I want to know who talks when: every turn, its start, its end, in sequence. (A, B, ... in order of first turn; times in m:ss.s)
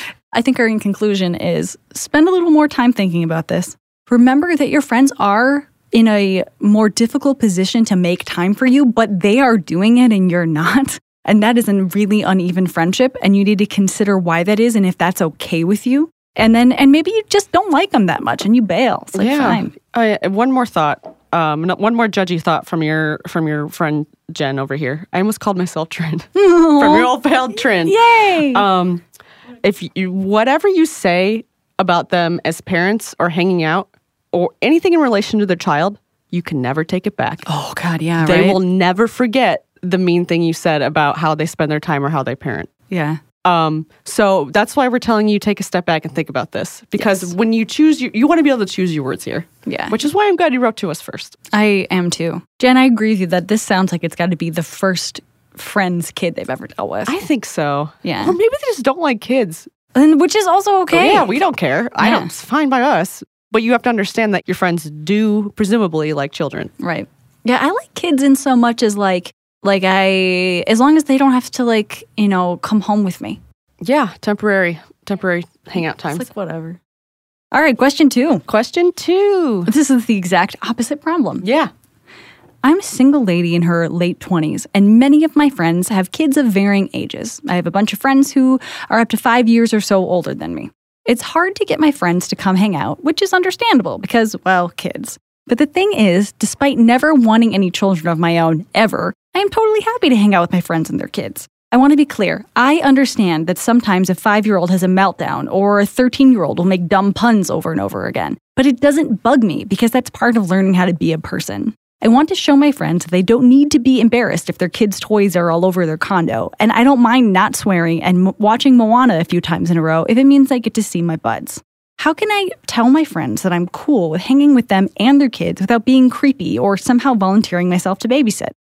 0:00.3-0:19.7 A
0:19.1-0:29.0 B
0:26.3-0:28.6 A
0:29.6-0:37.4 B
0:37.5-0:38.6 A
0:38.2-0:42.7 B
0:42.9-0:43.2 A
0:43.4-0:51.4 B
0:47.0-0:47.3 A
0:49.6-0:50.0 A
0:51.5-0:57.1 A
0:57.0-0:59.7 B
0:58.0-0:58.4 A
0:59.9-1:01.3 A
1:00.9-1:06.7 B
1:02.0-1:02.3 A
1:06.8-1:13.4 A
1:13.8-1:16.2 B
1:16.1-1:16.8 A
1:17.5-1:18.4 A
1:18.5-1:19.7 B
1:19.7-1:21.4 A
1:21.4-1:21.7 B
1:22.6-2:08.5 A